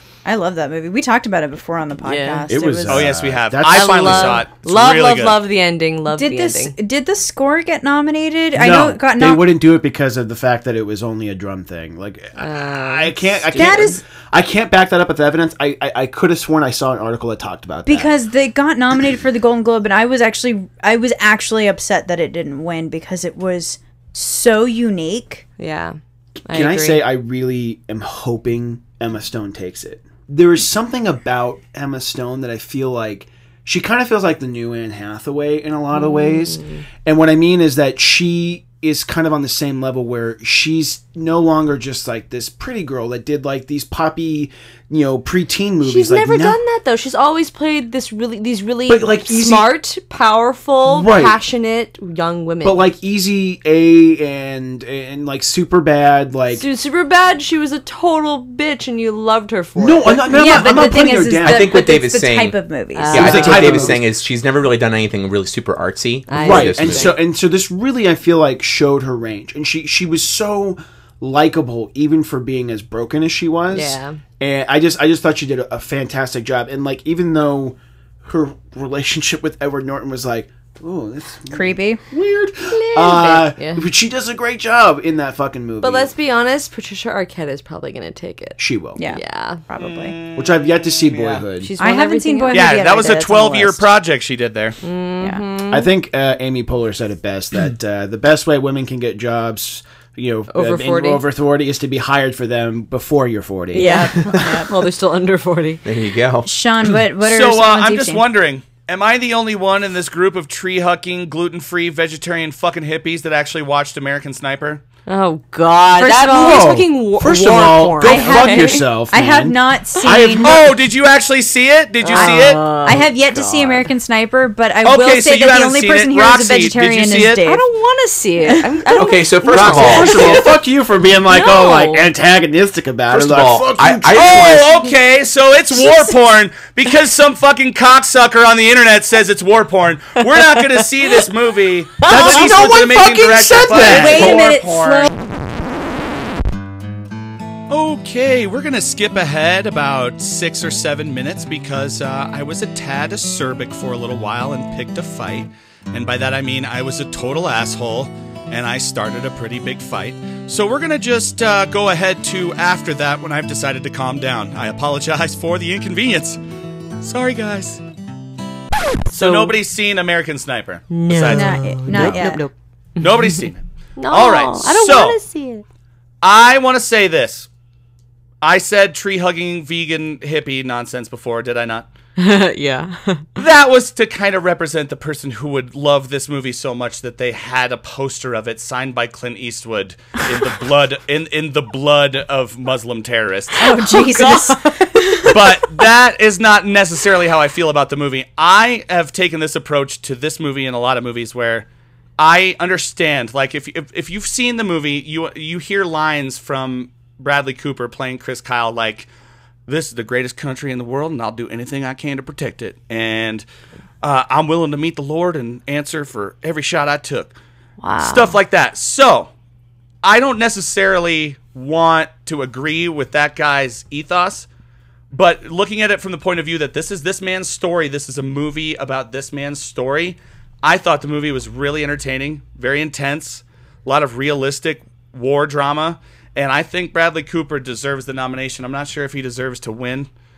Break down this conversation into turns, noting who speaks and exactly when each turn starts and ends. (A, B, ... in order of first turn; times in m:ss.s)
0:00.2-0:03.1 A
0:02.0-0:02.5 B
0:02.5-0:04.4 C
0:02.9-0:05.4 D
0:03.6-0:06.7 B
0:06.1-0:09.5 A
0:08.5-0:18.1 C
0:12.4-0:14.0 B
0:13.5-0:14.0 A
0:17.8-0:25.4 A
0:25.6-0:27.1 B
0:26.5-0:46.6 C
0:35.9-0:36.8 B
0:45.8-0:52.8 B
0:48.9-0:49.7 C
0:50.8-0:51.4 C
0:52.6-0:56.6 C
0:56.5-1:00.8 B
0:59.8-1:01.7 C
1:00.3-1:03.4 A
1:01.4-1:02.6 E
1:02.9-1:04.0 B
1:03.1-1:04.0 C
1:03.1-1:07.2 E
1:06.3-1:07.2 B
1:06.4-1:26.1 C
1:13.7-1:14.2 B
1:21.5-1:22.0 A
1:22.7-1:23.8 B
1:25.8-1:29.6 B
1:28.6-1:29.0 C
1:29.0-1:30.2 A
1:30.3-1:31.7 C
1:31.5-1:32.7 B
1:31.8-1:33.8 A
1:32.5-1:34.8 D
1:34.8-1:35.9 B
1:35.7-1:44.5 C
1:40.5-1:41.2 B
1:43.7-1:45.8 B
1:43.7-1:44.7 A
1:45.8-1:46.5 E
1:46.4-1:48.2 A
1:47.2-1:54.8 D
1:55.1-1:58.9 B
1:56.0-1:56.7 A
1:56.3-2:00.7 C
1:58.0-2:00.6 A
2:00.4-2:02.6 D
2:02.0-2:03.9 B
2:02.1-2:07.6 A
2:04.8-2:07.4 D
2:07.4-2:10.6 B
2:08.9-2:10.3 E
2:09.4-2:14.6 C
2:11.3-2:12.0 B
2:13.1-2:14.7 E
2:14.1-2:25.1 D
2:15.7-2:16.1 A
2:20.3-2:21.2 B
2:22.0-2:22.3 B
2:22.0-2:24.5 C
2:22.2-2:22.6 A
2:23.7-2:25.1 A
2:27.7-2:46.4 D
2:47.0-2:47.8 D
2:49.1-2:49.5 B
2:49.1-2:52.2 D
2:50.9-2:55.6 B
2:51.3-2:52.4 A
2:53.0-2:55.2 D
2:56.2-2:57.5 D
2:58.4-3:01.9 D
3:02.2-3:03.2 B
3:03.4-3:13.7 D
3:13.6-3:15.3 A
3:13.8-3:15.3 B
3:15.3-3:21.7 D
3:22.2-3:29.1 D
3:29.7-3:33.4 D
3:34.0-3:37.3 D
3:37.8-3:38.4 B
3:38.0-3:39.3 D
3:40.0-3:44.5 D
3:45.1-4:00.1 D